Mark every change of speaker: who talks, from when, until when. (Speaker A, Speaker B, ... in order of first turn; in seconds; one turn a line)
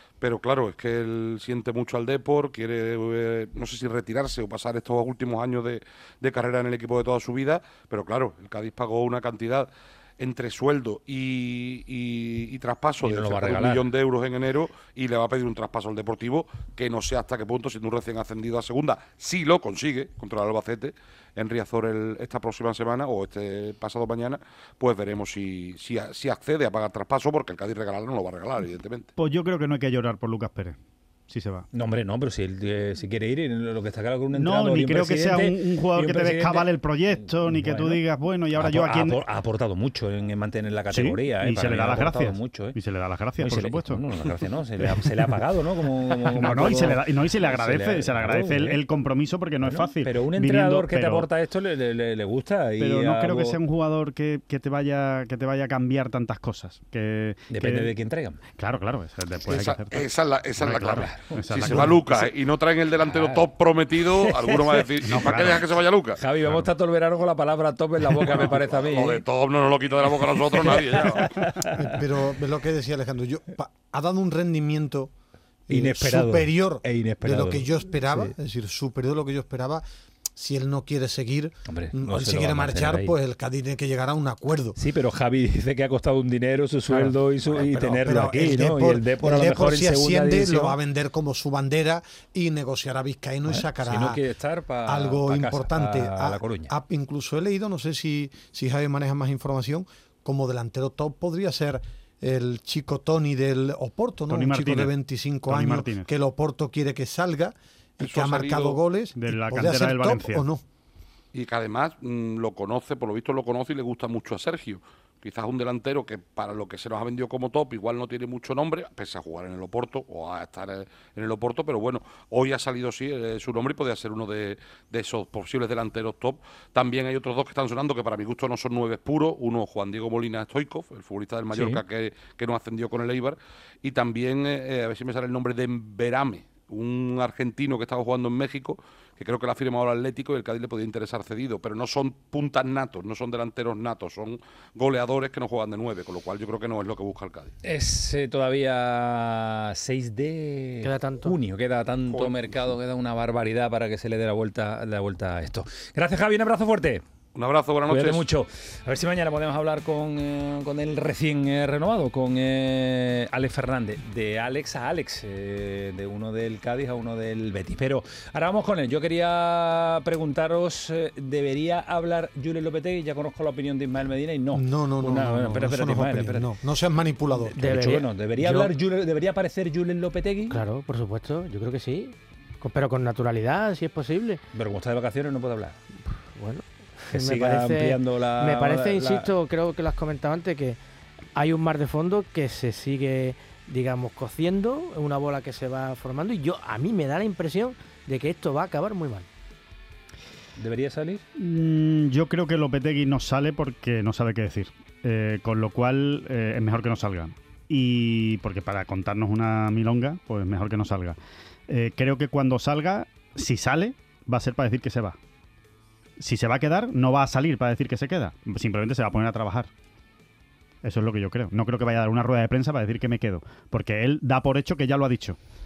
Speaker A: 0.2-29.1
Speaker B: 13.0-13.9
Speaker C: 29.2-30.8
Speaker C: 31.3-31.6
Speaker B: 31.7-38.0
Speaker C: 34.3-39.2
Speaker B: 38.5-42.8
Speaker C: 40.9-44.0
Speaker B: 43.4-48.8
Speaker C: 44.8-45.3
Speaker C: 46.2-51.3
Speaker B: 49.6-53.6
Speaker C: 52.8-57.9
Speaker B: 57.5-58.4
Speaker C: 58.5-60.0
Speaker A: 59.5-66.2
Speaker C: 60.6-62.3
Speaker B: 60.8-61.9
Speaker B: 63.0-65.4
Speaker C: 65.1-65.6
Speaker B: 66.2-69.2
Speaker A: 68.2-71.4
Speaker B: 70.0-72.0
Speaker D: 71.8-75.1
Speaker D: 75.7-79.8
Speaker B: 75.7-78.3
Speaker D: 80.4-84.8
Speaker B: 81.7-83.1
Speaker B: 84.8-90.8
Speaker D: 86.9-94.2
Speaker B: 93.4-96.7
Speaker D: 94.9-110.6
Speaker C: 104.3-104.9
Speaker C: 105.5-106.1
Speaker A: 108.0-108.9
Speaker C: 109.1-110.4
Speaker A: 111.3-147.5
Speaker B: 131.5-131.8
Speaker B: 147.6-157.0
Speaker E: 150.8-151.3
Speaker A: 157.3-158.3
Speaker B: 157.9-176.5
Speaker D: 174.5-177.6
Speaker B: 177.3-180.6
Speaker E: 177.6-178.6
Speaker E: 180.5-184.4
Speaker B: 184.5-185.8
Speaker E: 186.3-190.8
Speaker B: 187.1-189.3
Speaker E: 191.3-199.3
Speaker B: 200.6-201.2
Speaker C: 201.4-211.2
Speaker C: 211.7-215.2
Speaker C: 216.2-219.7
Speaker C: 220.8-225.4